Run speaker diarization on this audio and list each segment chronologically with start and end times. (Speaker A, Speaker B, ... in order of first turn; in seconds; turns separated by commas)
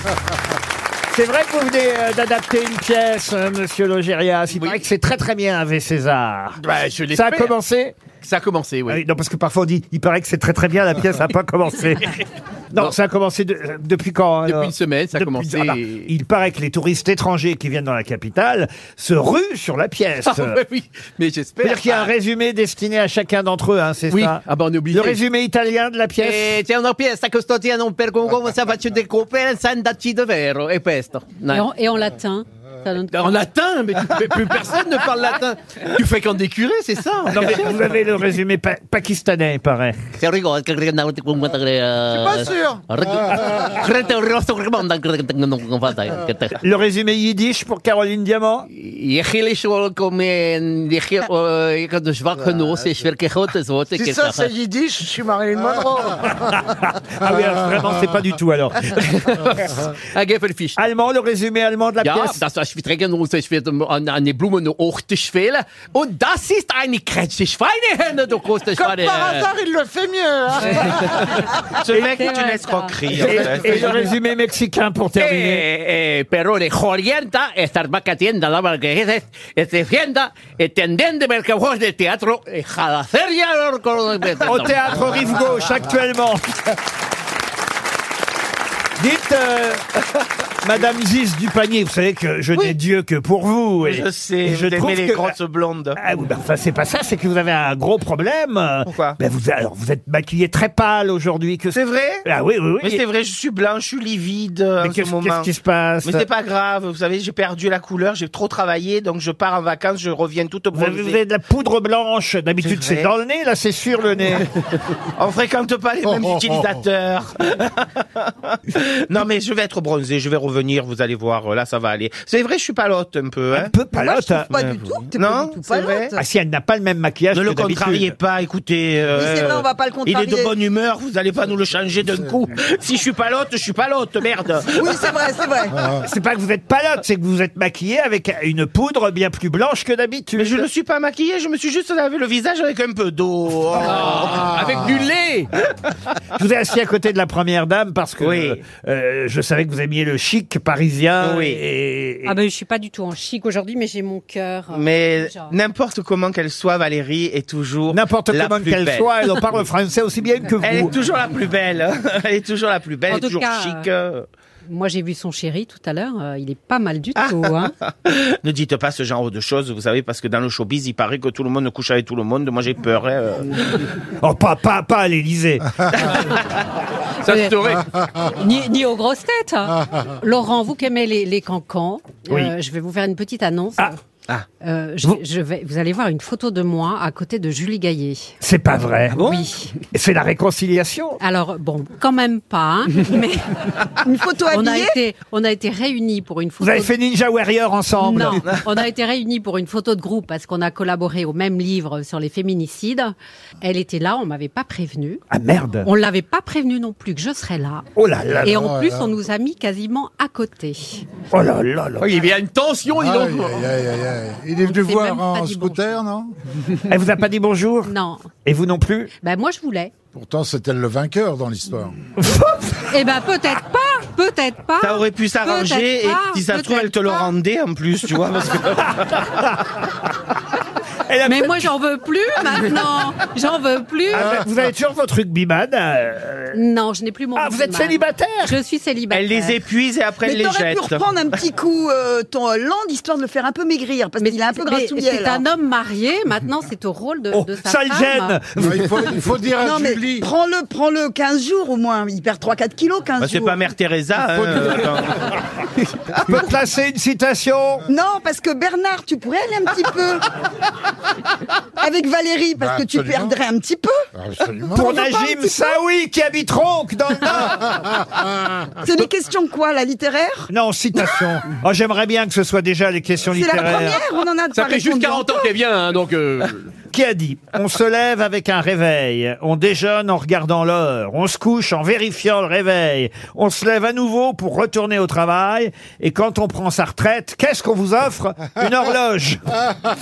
Speaker A: 1.1-8.0, Speaker B: 4.5-4.8, Speaker B: 6.6-7.5, Speaker B: 8.2-9.0, Speaker A: 8.9-20.6, Speaker B: 14.4-16.1, Speaker B: 20.2-22.1, Speaker A: 21.6-26.6, Speaker B: 24.1-25.2, Speaker B: 26.2-31.6, Speaker C: 31.5-33.4, Speaker B: 33.1-37.7, Speaker A: 37.3-40.0, Speaker B: 40.2-46.6, Speaker D: 42.1-42.8, Speaker A: 46.6-48.7, Speaker B: 48.7-54.5, Speaker D: 53.9-56.3, Speaker A: 56.4-59.0, Speaker B: 58.9-60.8, Speaker A: 60.8-62.4, Speaker B: 62.0-69.5, Speaker D: 69.6-70.0, Speaker E: 70.1-70.5, Speaker C: 70.6-73.7, Speaker B: 70.6-71.5, Speaker F: 71.8-74.0, Speaker A: 73.2-75.7, Speaker B: 75.2-85.0, Speaker A: 84.4-86.8, Speaker A: 89.0-89.8, Speaker A: 90.6-95.4, Speaker F: 93.8-96.0, Speaker A: 96.0-103.0, Speaker F: 98.9-99.2, Speaker F: 101.7-102.2, Speaker F: 102.8-105.5, Speaker A: 104.8-106.3, Speaker F: 106.0-111.2, Speaker A: 110.7-114.5, Speaker F: 115.2-123.8, Speaker E: 116.0-116.8, Speaker A: 123.5-124.5, Speaker G: 123.9-126.2, Speaker F: 124.5-126.1, Speaker A: 126.1-128.1, Speaker F: 127.3-135.0, Speaker G: 129.1-130.6, Speaker G: 134.8-135.8, Speaker A: 136.0-140.7, Speaker F: 140.4-144.6, Speaker B: 143.8-145.5, Speaker E: 144.5-144.8, Speaker A: 146.4-152.4, Speaker F: 148.2-148.6, Speaker F: 151.2-151.6, Speaker C: 152.3-155.6, Speaker F: 154.7-159.3, Speaker A: 157.9-160.9, Speaker F: 160.6-164.3, Speaker C: 163.1-163.9, Speaker C: 164.7-167.7, Speaker F: 167.2-173.8, Speaker A: 174.2-176.1, Speaker B: 177.2-177.8, Speaker C: 177.2-184.0, Speaker A: 182.3-182.5, Speaker C: 184.6-188.3, Speaker A: 188.4-189.3, Speaker C: 189.2-189.7, Speaker A: 189.9-191.2, Speaker C: 191.2-193.5, Speaker G: 194.1-195.0, Speaker C: 194.5-196.9, Speaker A: 196.6-198.5, Speaker C: 198.0-205.2, Speaker A: 205.3-205.9, Speaker C: 205.8-207.9, Speaker A: 207.9-208.6, Speaker C: 208.4-211.1, Speaker E: 208.6-209.1, Speaker A: 211.3-212.1, Speaker B: 212.0-213.7, Speaker E: 212.9-216.3, Speaker C: 214.6-216.0, Speaker A: 216.8-217.9, Speaker C: 217.9-218.3, Speaker A: 218.4-219.1, Speaker C: 219.2-219.9, Speaker E: 220.1-222.0, Speaker A: 222.2-222.9, Speaker C: 222.9-227.3, Speaker F: 224.8-229.4, Speaker A: 231.1-231.7, Speaker C: 231.2-234.4, Speaker A: 234.1-236.6, Speaker C: 236.5-239.6, Speaker A: 237.3-238.6, Speaker F: 239.1-241.2, Speaker G: 240.2-245.4, Speaker C: 244.2-248.4, Speaker A: 247.3-248.9, Speaker E: 248.6-250.3, Speaker G: 249.6-253.7, Speaker F: 253.2-255.3, Speaker A: 256.2-257.9, Speaker G: 257.9-260.2, Speaker G: 261.8-264.1, Speaker E: 262.6-263.3, Speaker E: 264.2-265.0, Speaker A: 264.7-267.8, Speaker G: 265.0-265.4, Speaker G: 268.8-270.5, Speaker A: 270.5-274.0, Speaker G: 273.3-275.5, Speaker B: 274.5-276.7, Speaker A: 276.9-289.4